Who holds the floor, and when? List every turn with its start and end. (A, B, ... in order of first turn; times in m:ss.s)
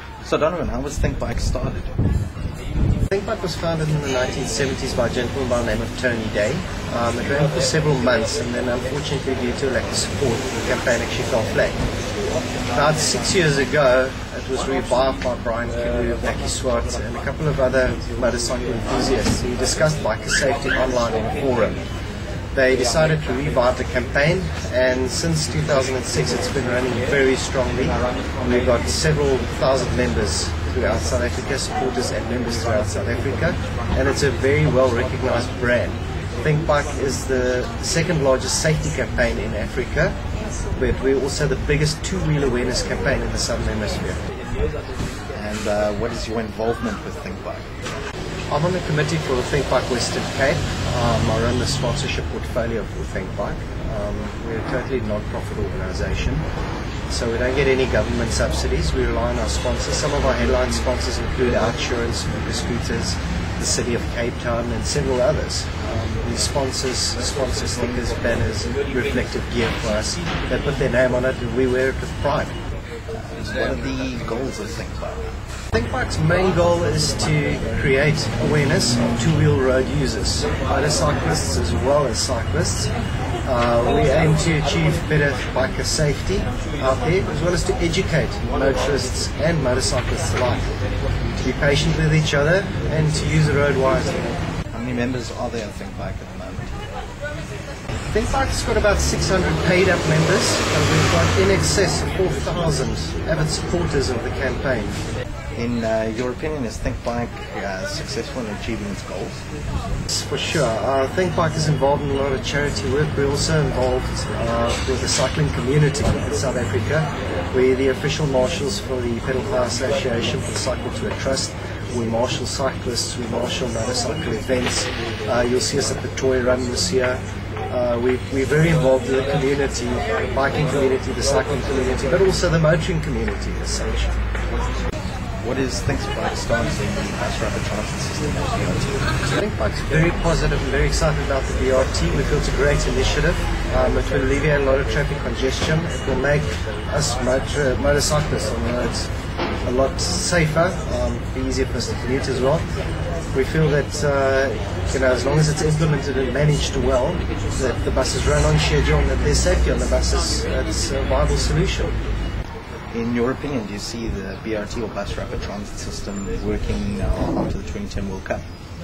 0:00.2-0:02.0 A
0:03.1-0:11.8 B
0:12.7-0:21.8 B
0:22.5-0:40.2 B
0:40.8-0:44.2 B
0:45.3-0:47.7 A
0:48.5-0:56.5 B
0:57.1-1:12.6 B
1:13.1-1:15.4 A
1:15.7-1:22.9 B
1:23.4-1:30.7 B
1:31.4-1:34.4 B
1:34.7-1:36.7 A
1:38.0-1:45.0 B
1:45.5-1:49.4 A
1:50.1-2:14.1 B
2:15.4-2:19.1 A
2:19.3-2:29.0 B
2:29.6-2:32.7 B
2:33.3-2:42.0 B
2:42.9-2:48.4 A